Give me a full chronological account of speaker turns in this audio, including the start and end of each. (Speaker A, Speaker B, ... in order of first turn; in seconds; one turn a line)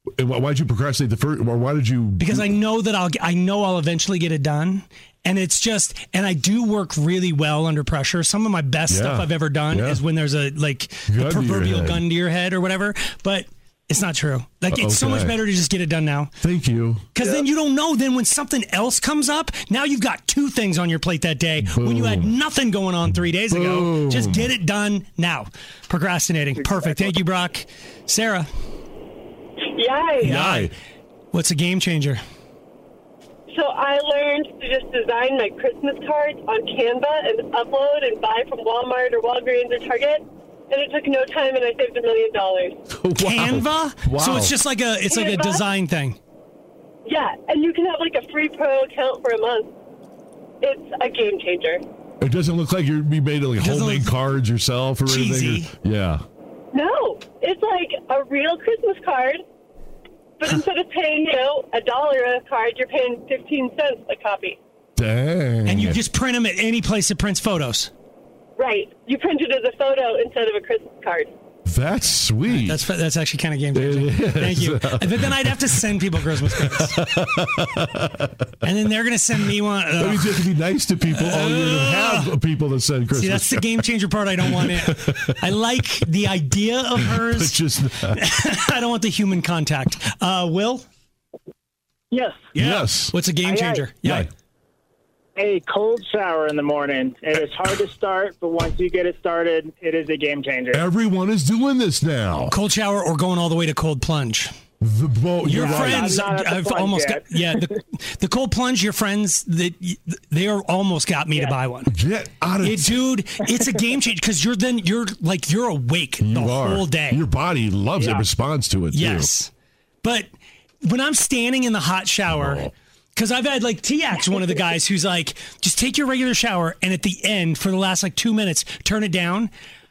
Speaker A: 0.2-2.5
Speaker B: 2.2-16.3
Speaker A: 8.9-10.0
Speaker A: 11.1-12.1
Speaker A: 14.7-15.4
Speaker A: 16.4-17.1
Speaker B: 17.1-28.5
Speaker A: 21.6-22.3
Speaker A: 23.5-24.5
Speaker C: 29.7-30.4
Speaker A: 30.2-30.7
Speaker B: 30.2-30.7
Speaker B: 31.3-32.2
Speaker C: 33.5-42.8
Speaker A: 43.0-44.5
Speaker B: 43.1-46.2
Speaker C: 45.0-45.6
Speaker C: 47.0-49.7
Speaker C: 50.6-51.8
Speaker A: 52.2-56.2
Speaker B: 53.6-54.1
Speaker B: 55.0-55.7
Speaker C: 56.7-59.4
Speaker C: 60.4-64.6
Speaker A: 65.0-66.0
Speaker B: 65.6-67.9
Speaker C: 68.6-71.3
Speaker A: 71.7-72.8
Speaker B: 72.5-76.9
Speaker A: 73.7-78.3
Speaker B: 78.6-82.3
Speaker A: 80.0-85.3
Speaker B: 83.1-90.9
Speaker A: 87.1-88.2
Speaker D: 92.1-92.5
Speaker B: 92.5-94.3
Speaker A: 92.5-93.2
Speaker D: 93.4-93.9
Speaker D: 95.4-100.8
Speaker A: 100.7-102.5
Speaker B: 102.5-104.5
Speaker A: 104.8-106.2
Speaker B: 105.4-111.9
Speaker D: 105.5-107.4
Speaker A: 111.9-113.0
Speaker B: 112.6-117.2
Speaker A: 116.2-119.3
Speaker D: 118.0-118.2
Speaker B: 118.9-119.5
Speaker B: 120.0-120.3
Speaker B: 120.8-129.5
Speaker A: 122.3-122.7